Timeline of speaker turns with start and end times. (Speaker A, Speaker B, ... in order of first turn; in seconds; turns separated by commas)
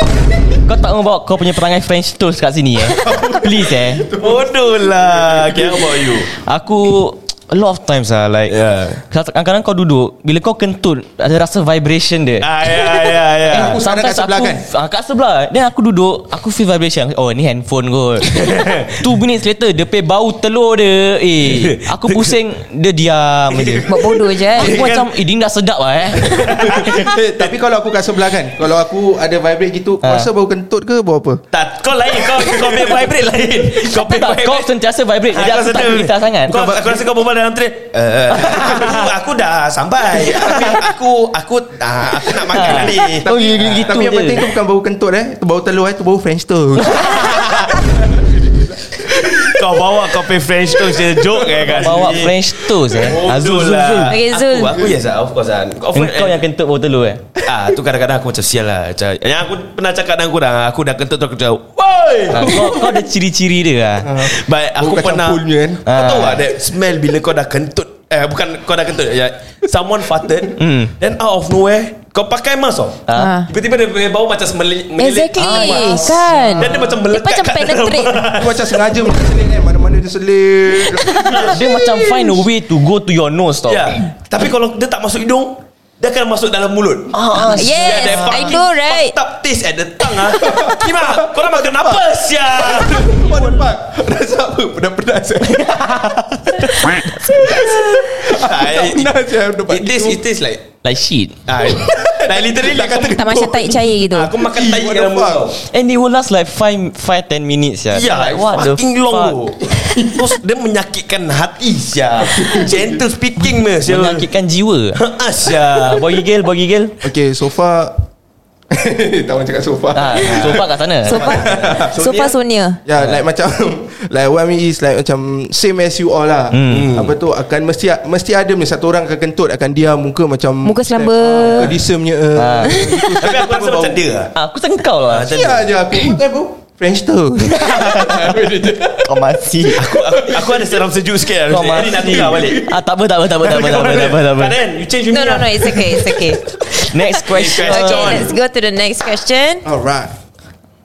Speaker A: 0.6-4.1, Speaker B: 2.8-6.0, Speaker C: 4.2-6.3, Speaker A: 6.3-24.0, Speaker C: 8.5-9.0, Speaker C: 12.4-13.8, Speaker B: 13.5-14.7, Speaker C: 18.3-19.0, Speaker C: 21.4-22.3, Speaker C: 23.5-23.9, Speaker D: 23.8-24.8, Speaker C: 24.5-25.2, Speaker A: 24.5-27.1, Speaker C: 26.2-27.0, Speaker B: 26.5-31.4, Speaker A: 30.0-30.3, Speaker C: 31.5-34.7, Speaker A: 33.7-36.7, Speaker C: 35.3-43.3, Speaker A: 38.3-39.1, Speaker B: 40.2-40.8, Speaker A: 42.5-44.5, Speaker B: 42.6-49.6, Speaker A: 46.8-47.8, Speaker C: 49.1-56.4, Speaker B: 50.9-52.0, Speaker A: 51.7-54.2, Speaker D: 54.1-54.8, Speaker A: 55.9-57.3, Speaker C: 57.4-62.8, Speaker A: 62.3-64.2, Speaker B: 62.4-62.9, Speaker B: 64.0-65.8, Speaker C: 64.2-75.7, Speaker A: 65.8-66.4, Speaker A: 70.6-70.9, Speaker A: 73.1-73.3, Speaker D: 73.1-73.5, Speaker D: 75.0-78.2, Speaker A: 75.4-76.2, Speaker B: 75.4-77.0, Speaker C: 76.6-78.8, Speaker B: 78.3-81.6, Speaker C: 81.1-81.6, Speaker A: 81.4-84.0, Speaker C: 83.7-93.5, Speaker A: 87.1-88.5, Speaker D: 87.5-89.2, Speaker B: 90.3-100.2, Speaker C: 97.6-99.1, Speaker C: 99.7-100.7, Speaker A: 100.8-101.4, Speaker C: 101.5-103.2, Speaker B: 101.7-105.5, Speaker D: 103.0-104.3, Speaker C: 104.1-105.6, Speaker A: 105.6-109.4, Speaker C: 107.9-114.3, Speaker B: 109.7-110.2, Speaker B: 112.3-112.8, Speaker A: 113.8-115.0, Speaker C: 114.9-116.2, Speaker A: 115.7-116.9, Speaker B: 117.0-118.0, Speaker B: 118.7-121.9, Speaker A: 119.9-121.4, Speaker C: 120.2-120.6, Speaker D: 121.0-122.8, Speaker C: 121.1-122.3, Speaker B: 122.8-134.0, Speaker A: 126.5-127.0, Speaker C: 126.7-127.2, Speaker D: 130.6-131.7, Speaker A: 132.3-132.9, Speaker D: 132.7-132.9, Speaker C: 133.2-134.3, Speaker A: 134.3-135.5, Speaker C: 135.1-135.7, Speaker B: 135.2-140.8, Speaker A: 137.5-138.5, Speaker A: 139.0-139.9, Speaker C: 139.8-142.7, Speaker A: 141.5-144.6, Speaker B: 141.9-142.7, Speaker C: 143.3-146.2, Speaker D: 145.1-149.7, Speaker A: 146.8-148.3, Speaker C: 147.2-148.3, Speaker B: 149.6-150.1